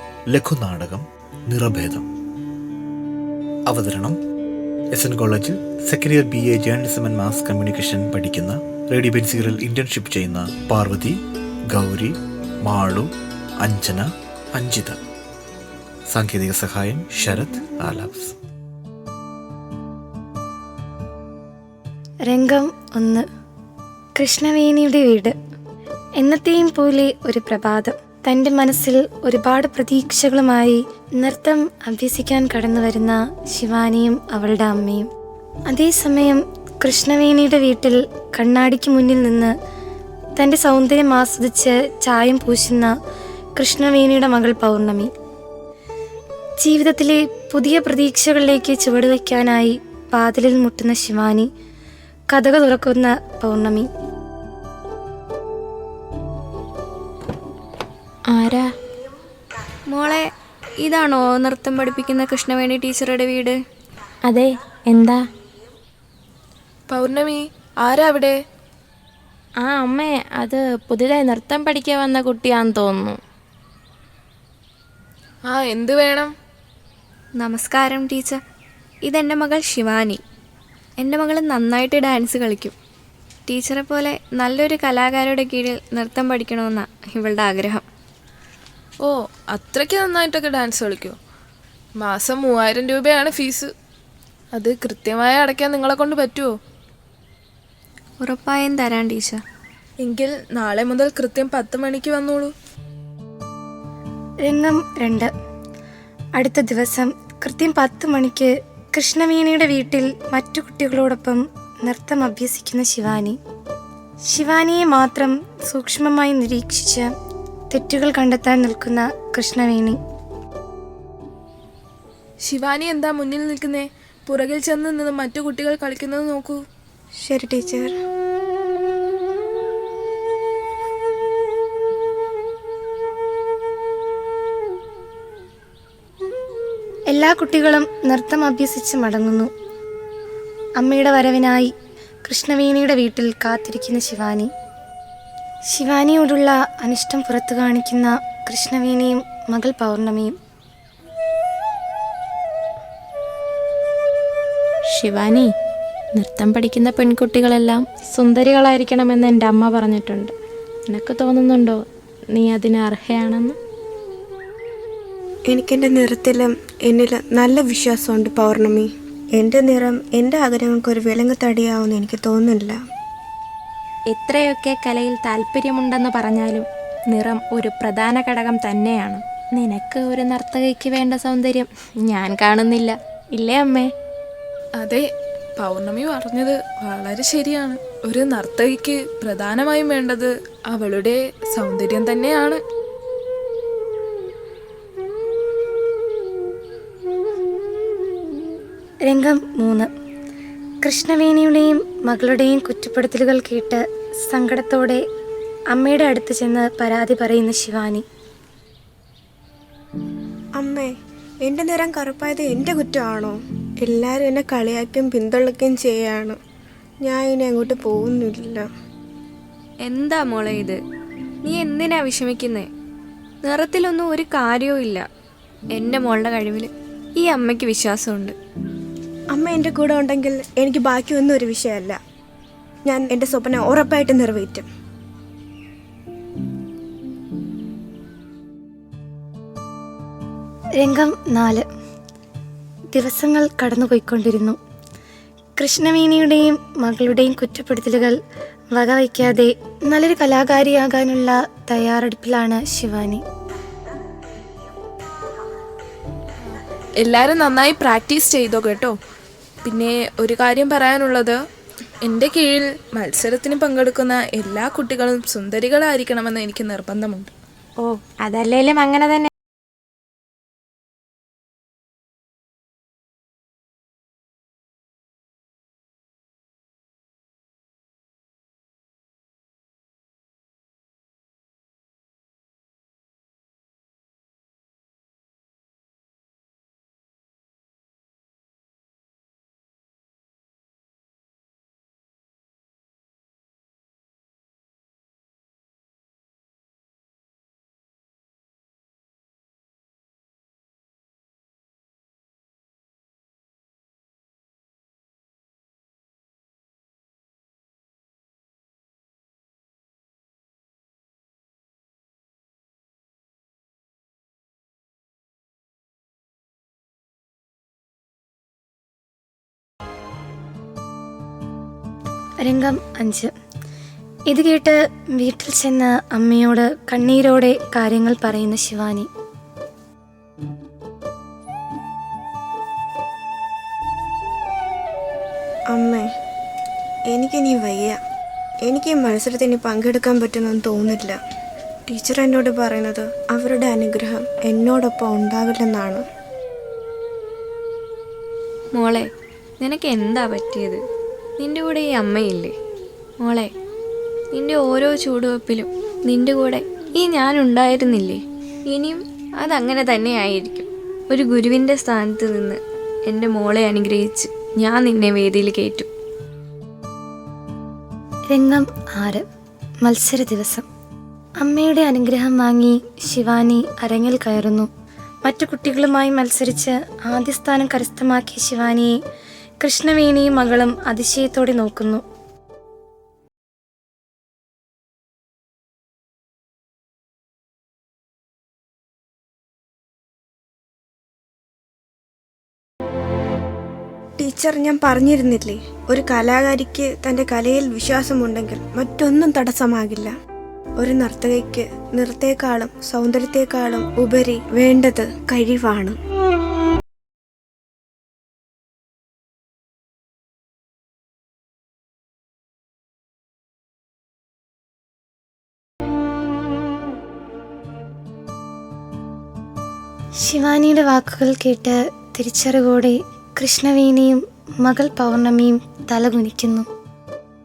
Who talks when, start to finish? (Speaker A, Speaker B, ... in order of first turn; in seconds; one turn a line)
Speaker A: 0.3-2.0
Speaker A: 3.7-4.2
Speaker A: 4.9-11.2
Speaker A: 11.7-15.0
Speaker A: 16.1-18.3
Speaker B: 22.3-23.2
Speaker B: 24.1-25.4
Speaker B: 26.2-35.1
Speaker B: 35.7-39.5
Speaker B: 40.4-42.9
Speaker B: 43.6-45.1
Speaker B: 46.6-51.5
Speaker B: 52.3-53.9
Speaker C: 58.3-58.7
Speaker D: 59.9-60.3
Speaker D: 60.8-63.6
Speaker C: 64.3-65.2
Speaker E: 66.9-68.3
Speaker C: 69.6-73.2
Speaker E: 75.5-76.3
Speaker D: 77.3-78.4
Speaker D: 79.0-80.2
Speaker D: 81.0-82.7
Speaker D: 83.5-87.8
Speaker E: 89.0-91.2
Speaker E: 92.0-93.7
Speaker E: 94.5-96.5
Speaker D: 98.2-99.4
Speaker E: 100.0-102.5
Speaker B: 104.5-105.3
Speaker B: 106.4-113.4
Speaker B: 114.3-117.1
Speaker B: 117.7-120.0
Speaker E: 122.4-126.6
Speaker F: 127.2-127.9
Speaker B: 137.1-139.5
Speaker B: 140.8-141.7
Speaker B: 142.2-144.5
Speaker B: 145.7-150.3
Speaker C: 154.9-155.5
Speaker C: 156.2-160.3
Speaker C: 160.9-161.8
Speaker C: 162.3-163.6
Speaker F: 165.5-172.8
Speaker C: 174.1-183.9
Speaker E: 184.8-192.6
Speaker B: 199.1-199.9
Speaker B: 200.8-205.0
Speaker B: 205.7-208.0
Speaker F: 210.6-210.9
Speaker F: 211.4-216.4
Speaker F: 217.0-218.7
Speaker D: 219.8-220.8
Speaker D: 221.4-222.7
Speaker D: 223.4-225.1
Speaker D: 225.7-228.3
Speaker F: 229.3-232.0
Speaker F: 232.8-234.7
Speaker B: 240.8-241.7
Speaker B: 242.9-244.6
Speaker B: 245.6-248.2
Speaker B: 248.7-253.2
Speaker E: 257.0-258.9
Speaker E: 259.6-261.4
Speaker E: 262.0-267.3
Speaker C: 267.8-269.3
Speaker B: 322.4-323.3
Speaker B: 324.3-329.1
Speaker F: 335.7-336.0
Speaker F: 337.1-338.0
Speaker F: 338.6-341.2
Speaker F: 341.9-346.0
Speaker D: 348.7-349.1
Speaker D: 349.6-350.8
Speaker D: 351.4-352.5
Speaker D: 353.2-353.5
Speaker D: 354.3-365.9
Speaker B: 368.3-369.2
Speaker B: 369.8-370.6
Speaker B: 371.4-374.7
Speaker B: 375.2-378.9
Speaker B: 379.6-382.0
Speaker F: 394.2-400.1
Speaker F: 400.8-406.0
Speaker B: 420.2-426.7